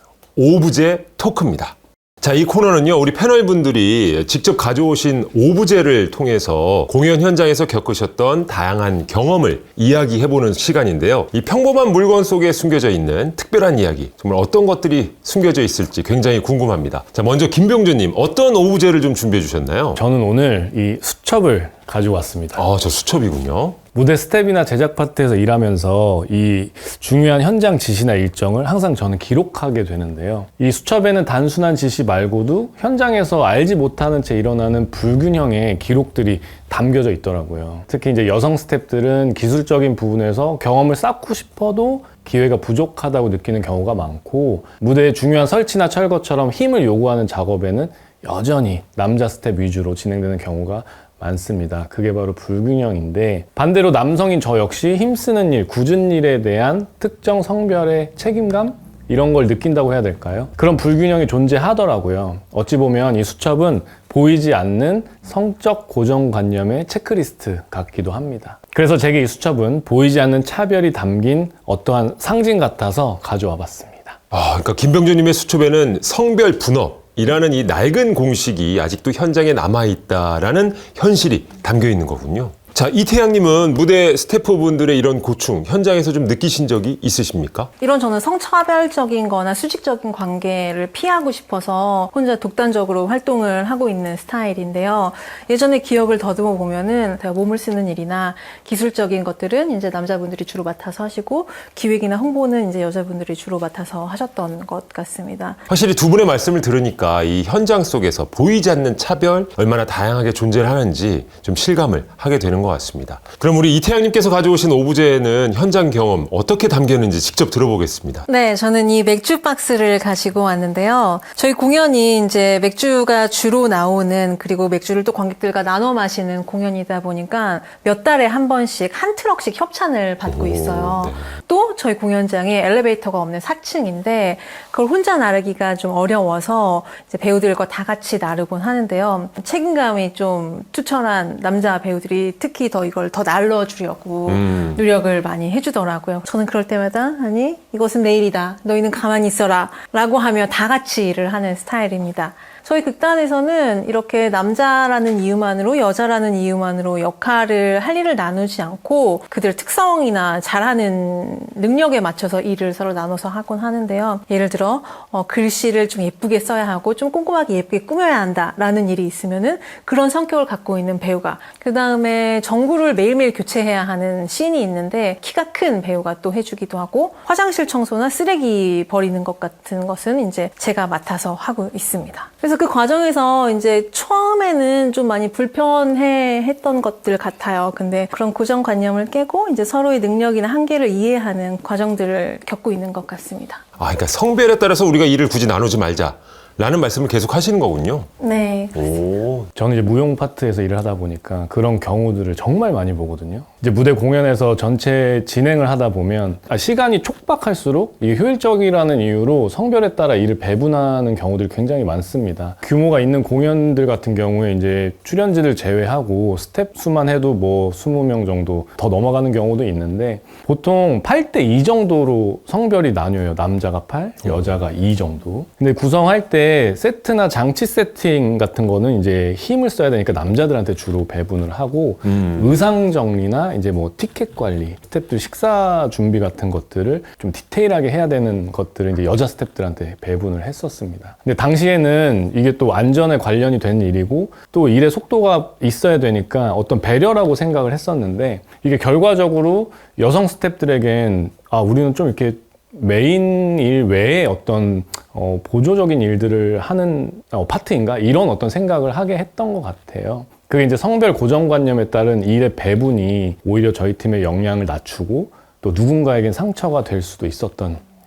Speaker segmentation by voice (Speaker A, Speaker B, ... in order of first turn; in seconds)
Speaker A: 0.3-20.0, 22.6-23.8, 74.3-87.7, 105.7-118.2, 130.2-131.3, 144.3-144.8, 193.8-198.1, 198.7-199.5
Speaker B: 20.0-22.6, 23.9-74.2, 199.6-267.8
Speaker C: 87.8-105.6, 118.3-193.6, 198.2-198.9